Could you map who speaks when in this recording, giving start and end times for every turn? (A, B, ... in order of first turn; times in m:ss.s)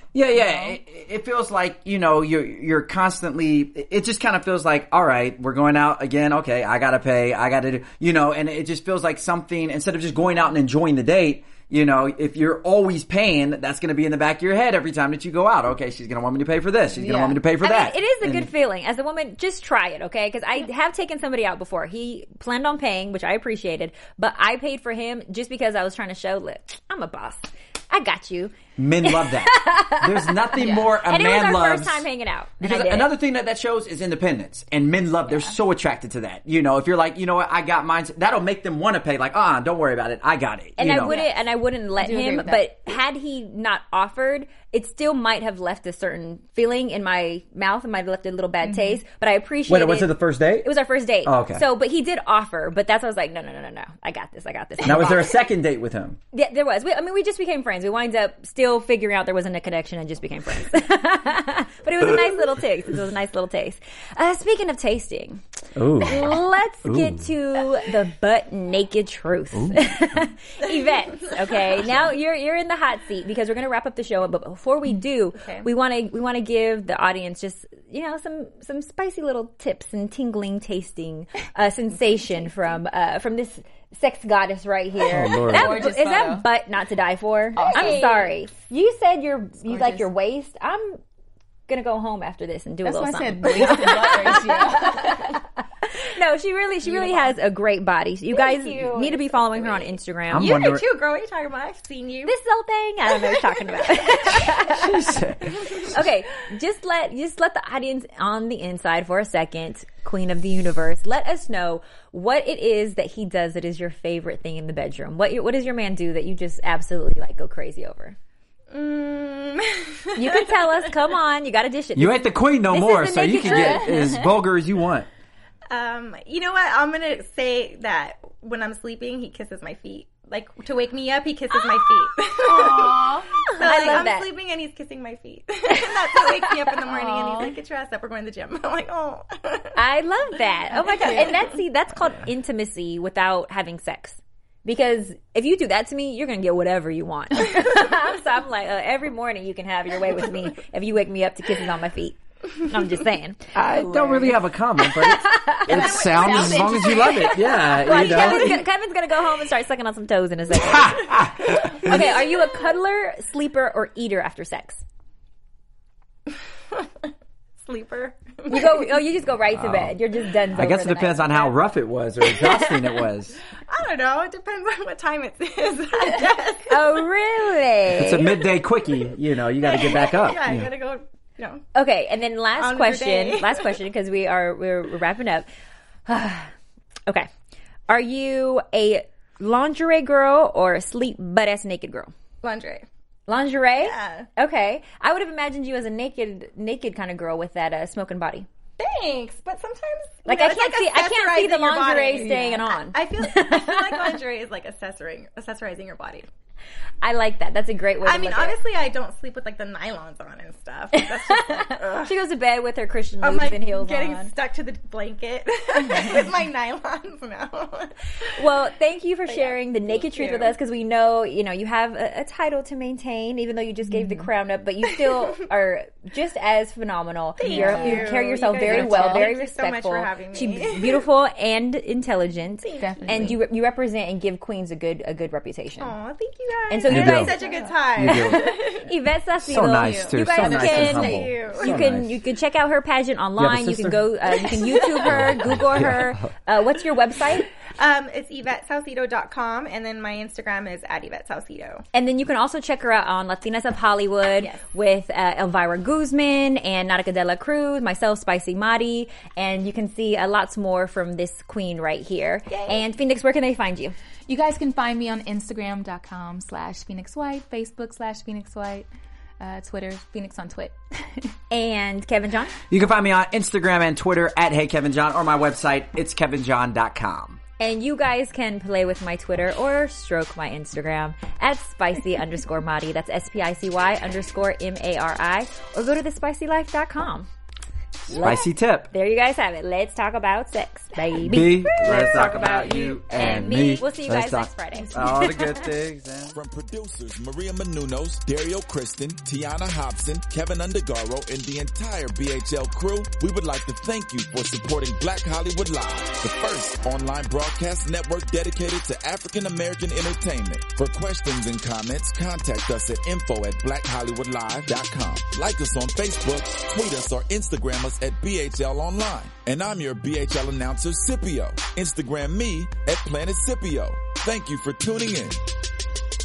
0:00.1-0:18.5 A
0:00.3-0:00.8 B
0:17.0-0:17.4 B
0:17.6-0:33.1 C
0:28.8-0:32.0 A
0:30.6-0:30.9 B
0:32.6-0:41.1 A
0:40.8-0:55.4 C
0:41.0-0:41.4 B
0:42.0-0:42.7 B
0:48.6-0:49.0 B
0:49.7-0:50.7 A
0:51.2-0:51.6 A
0:54.8-0:56.2 A
0:56.3-1:31.0 C
1:05.8-1:06.3 A
1:06.8-1:07.3 A
1:09.5-1:09.8 A
1:15.4-1:15.7 D
1:25.1-1:25.9 A
1:25.4-1:26.4 B
1:27.5-1:28.3 B
1:27.7-1:28.1 D
1:29.6-1:30.1 B
1:31.7-1:40.6 C
1:32.8-1:35.4 B
1:36.9-1:37.3 D
1:38.3-1:42.3 D
1:40.3-1:40.8 A
1:42.2-1:45.2 C
1:44.3-1:46.0 A
1:45.5-1:45.9 D
1:45.8-1:58.2 C
1:58.7-2:00.6 D
2:00.1-2:04.1 C
2:02.0-2:05.1 A
2:05.7-2:19.8 D
2:12.4-2:13.3 B
2:13.4-2:14.3 C
2:15.7-2:16.5 C
2:16.9-2:17.5 B
2:19.7-2:33.5 C
2:20.8-2:21.4 D
2:21.0-2:21.3 B
2:33.5-2:38.6 A
2:33.6-2:34.4 B
2:34.8-2:44.8 C
2:35.7-2:37.3 B
2:35.7-2:37.3 D
2:38.0-2:38.5 D
2:40.5-2:42.1 A
2:41.8-2:42.3 D
2:46.7-2:48.8 D
2:48.5-2:51.5 C
2:49.5-2:49.9 A
2:50.5-2:53.4 A
2:52.3-2:53.0 C
2:53.7-2:56.8 D
2:56.7-2:58.3 C
2:58.0-3:00.7 A
2:58.1-3:01.6 D
3:01.7-3:05.5 C
3:02.6-3:03.8 D
3:06.1-3:06.5 C
3:07.9-3:12.1 C
3:12.4-3:12.9 D
3:13.3-3:18.5 C
3:13.8-3:14.3 D
3:18.8-3:26.3 D
3:20.2-3:24.2 C
3:22.2-3:22.6 B
3:27.0-3:28.6 C
3:28.0-3:32.1 D
3:30.9-3:34.3 C
3:33.2-3:38.4 D
3:38.3-3:55.9 C
3:39.3-3:40.5 D
3:43.9-3:44.3 B
3:44.9-3:45.3 D
3:47.4-3:51.0 D
3:47.4-3:49.3 B
3:52.6-3:53.4 D
3:52.8-3:53.4 B
3:55.8-3:58.9 D
3:56.7-3:57.4 C
3:56.9-3:57.3 A
3:57.4-3:57.7 B
3:58.0-3:58.4 A
3:58.0-4:07.5 C
3:59.4-4:02.1 A
3:59.8-4:00.6 B
4:00.3-4:01.8 D
4:03.4-4:04.1 A
4:04.4-4:05.4 D
4:05.0-4:06.2 A
4:07.8-4:11.8 D
4:11.9-4:23.9 C
4:22.5-4:22.8 D
4:24.3-4:28.9 B
4:29.4-4:31.3 B
4:31.5-4:32.5 C
4:32.7-4:37.4 A
4:37.6-4:47.3 C
4:48.1-4:55.5 C
4:48.1-4:48.9 A
4:51.2-4:56.3 A
4:56.3-5:25.4 E